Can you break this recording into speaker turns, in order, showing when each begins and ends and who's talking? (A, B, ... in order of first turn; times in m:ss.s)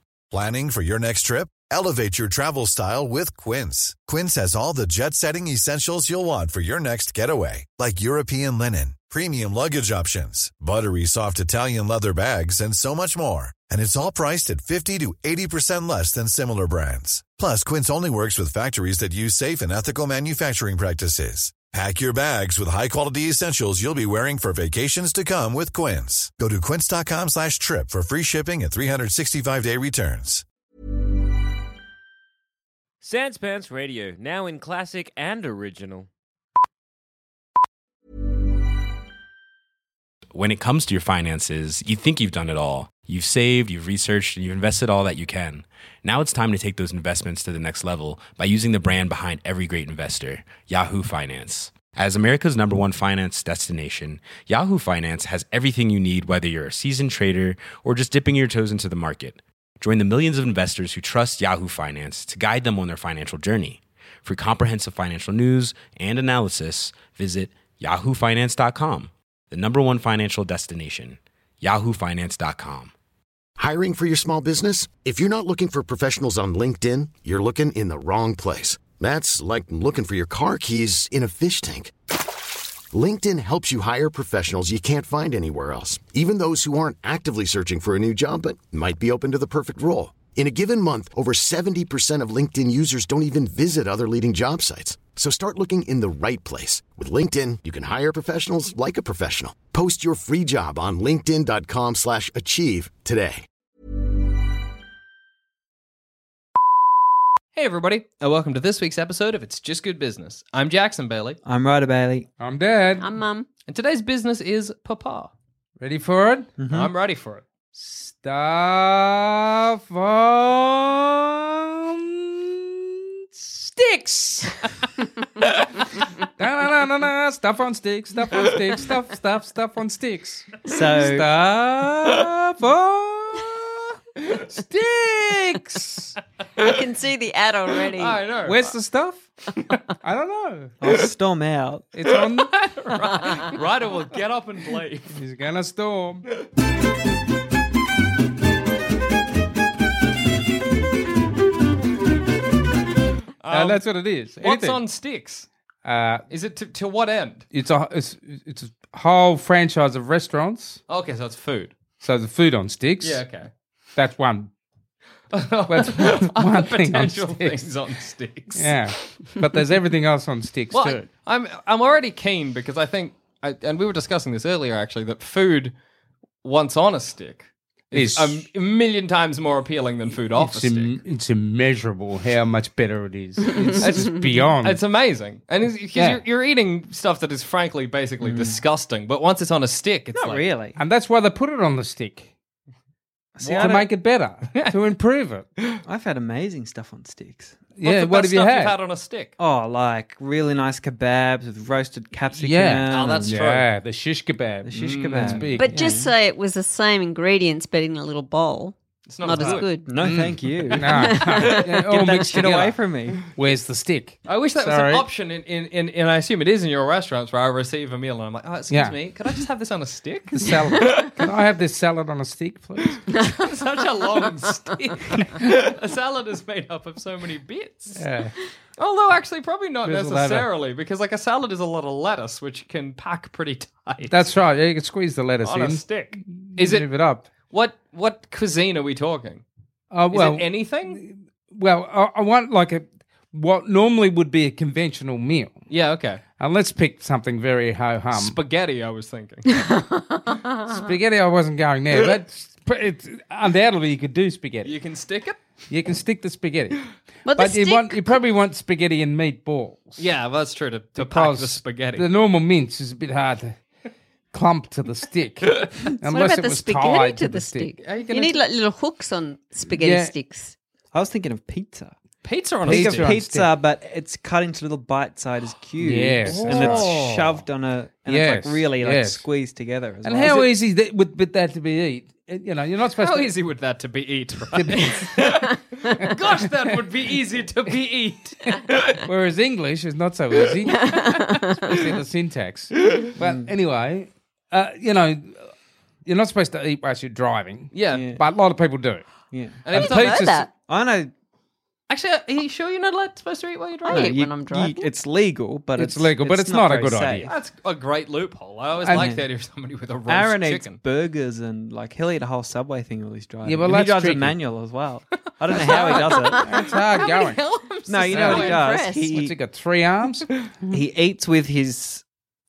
0:00.3-0:30.4 A
0:33.0-0:36.1 B
0:40.3-1:12.9 C
1:13.6-1:21.9 D
1:22.9-1:43.5 D
1:47.6-1:51.4 E
1:51.4-1:52.3 F
1:52.4-1:53.1 G
1:53.0-1:53.5 H
1:53.7-1:55.3 E
1:55.8-1:56.5 G
1:56.6-1:56.9 F
1:56.7-1:57.4 E
1:57.8-2:04.7 G
2:05.4-2:16.2 G
2:10.7-2:11.3 F
2:16.6-2:18.2 H
2:18.0-2:18.8 E
2:18.4-2:19.3 G
2:20.0-2:20.8 G
2:20.8-2:21.9 F
2:21.9-2:22.6 G
2:22.1-2:25.2 E
2:25.1-2:26.3 G
2:33.4-2:33.9 E
2:33.5-2:34.8 G
2:34.4-2:35.5 E
2:35.8-2:36.2 G
2:36.3-2:37.5 E
2:37.5-2:40.8 G
2:40.9-2:41.8 E
2:42.0-2:43.2 G
2:43.0-2:43.5 E
2:44.0-2:44.5 G
2:45.3-2:49.3 E
2:45.7-2:47.7 G
2:48.6-2:51.1 G
2:50.7-2:55.8 E
2:56.4-3:01.0 E
2:57.9-2:58.4 G
3:00.4-3:04.8 G
3:03.8-3:10.4 E
3:06.0-3:06.2 G
3:08.2-3:08.6 F
3:10.1-3:10.8 F
3:10.8-3:12.3 G
3:13.4-3:13.9 F
3:13.4-3:13.8 E
3:13.5-3:15.5 G
3:15.8-3:17.6 F
3:17.8-3:18.8 G
3:17.8-3:19.3 E
3:19.4-3:23.4 F
3:22.4-3:25.8 G
3:22.9-3:23.7 E
3:24.6-3:26.1 F
3:24.8-3:25.6 E
3:25.6-3:29.9 H
3:29.1-3:29.7 E
3:29.4-3:35.1 G
3:29.8-3:33.2 F
3:30.8-3:31.6 H
3:34.3-3:41.3 E
3:38.7-3:39.0 G
3:40.3-3:43.0 G
3:43.2-3:43.4 H
3:43.3-3:48.0 E
3:48.0-3:48.3 G
3:48.8-3:54.2 E
3:49.9-3:50.5 G
3:54.1-3:57.3 G
3:55.4-3:56.9 E
3:57.5-3:59.4 E
3:59.9-4:05.6 G
4:00.1-4:01.0 E
4:05.7-4:06.2 E
4:06.4-4:08.4 G
4:08.1-4:09.5 E
4:09.6-4:10.8 H
4:10.7-4:14.7 G
4:14.6-4:15.4 E
4:15.7-4:20.0 G
4:17.2-4:18.2 H
4:20.0-4:22.1 E
4:21.0-4:23.6 G
4:24.3-4:27.7 G
4:26.0-4:30.6 H
4:27.8-4:28.4 E
4:29.8-4:30.1 G
4:30.9-4:32.0 F
4:32.2-4:33.2 E
4:32.7-4:33.5 G
4:32.7-4:40.5 F
4:35.8-4:36.9 G
4:36.2-4:37.4 E
4:38.1-4:39.2 G
4:40.0-4:43.3 G
4:42.9-4:48.9 E
4:44.5-4:45.4 G
4:49.1-4:55.5 G
4:50.7-4:51.7 H
4:53.2-4:53.5 F
4:56.0-4:59.0 G
4:57.7-4:58.1 E
4:57.9-4:58.2 F
4:59.3-4:59.7 F
4:59.6-5:00.3 E
4:59.7-5:00.5 G
4:59.7-5:00.5 H
5:00.7-5:01.1 F
5:01.9-5:04.2 E
5:03.9-5:04.9 H
5:03.9-5:07.3 F
5:05.8-5:07.3 G
5:07.3-5:10.8 E
5:08.8-5:09.1 G
5:08.9-5:09.2 F
5:10.1-5:16.4 F
5:13.4-5:14.4 G
5:15.5-5:18.6 E
5:15.6-5:17.4 G
5:17.9-5:19.4 F
5:18.1-5:19.1 H
5:18.1-5:20.8 G
5:20.7-5:22.0 F